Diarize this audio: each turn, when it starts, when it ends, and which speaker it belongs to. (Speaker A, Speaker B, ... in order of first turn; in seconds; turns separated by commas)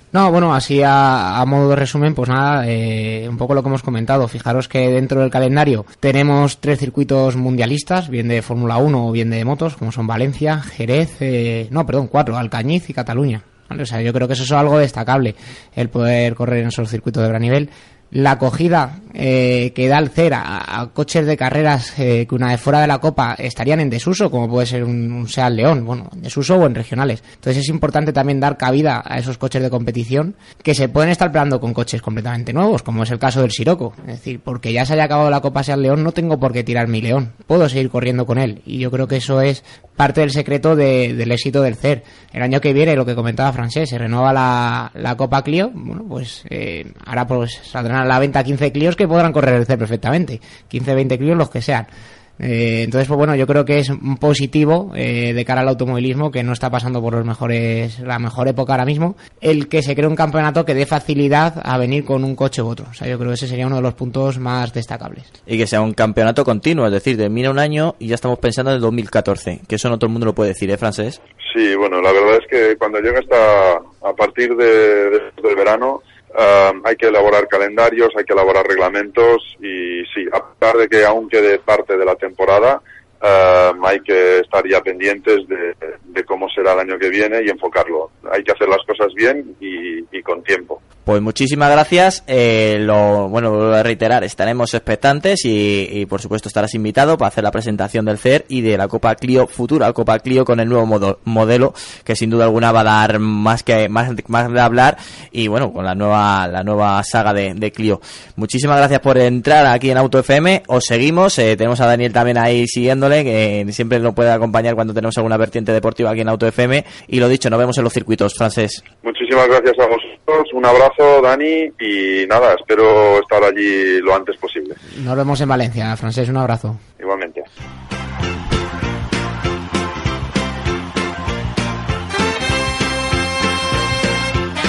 Speaker A: 0.1-51.9, Speaker A: 52.4-65.3, Speaker B: 65.5-71.2, Speaker C: 71.5-90.8, Speaker B: 91.0-118.8, Speaker C: 119.0-124.8, Speaker A: 125.0-126.8, Speaker C: 127.0-127.4